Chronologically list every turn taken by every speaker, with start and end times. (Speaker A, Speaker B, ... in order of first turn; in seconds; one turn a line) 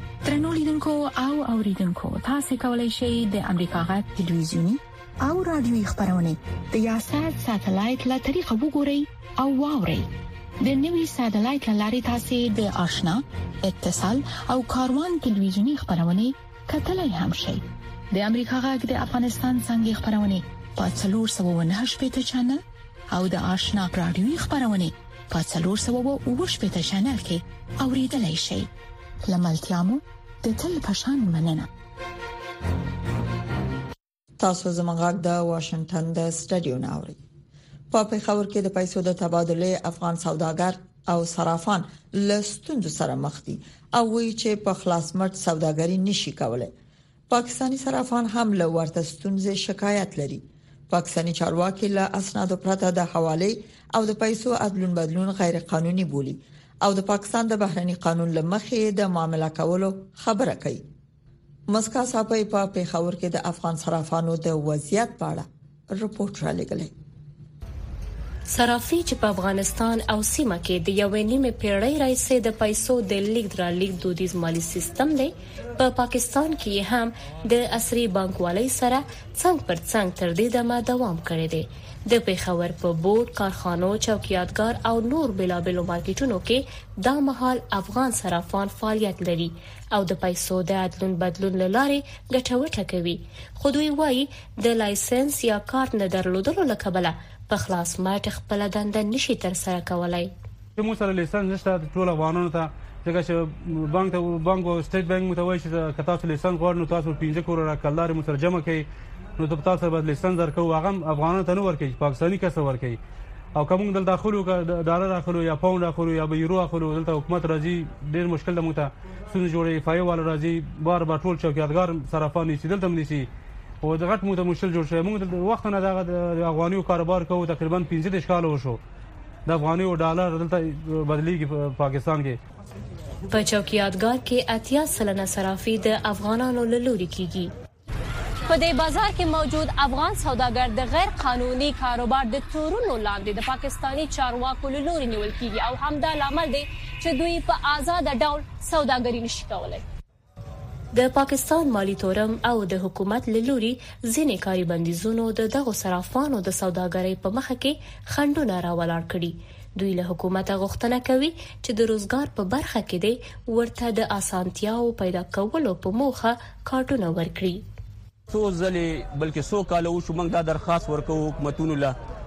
Speaker A: 0.2-10.1
Speaker A: 10.6-28.7
Speaker A: 29.2-31.7
Speaker B: 34.4-37.2
Speaker B: 37.9-46.7
Speaker B: 47.3-60.9
Speaker B: 61.7-66.9
Speaker C: 68.5-100.3
Speaker D: 100.8-108.9
Speaker D: 109.4-113.0
Speaker D: 113.5-123.3
Speaker D: 123.8-128.8
Speaker D: 129.5-132.4
Speaker C: 133.3-137.5
Speaker E: 138.5-149.8
Speaker C: 150.9-167.6
Speaker F: 168.3-171.9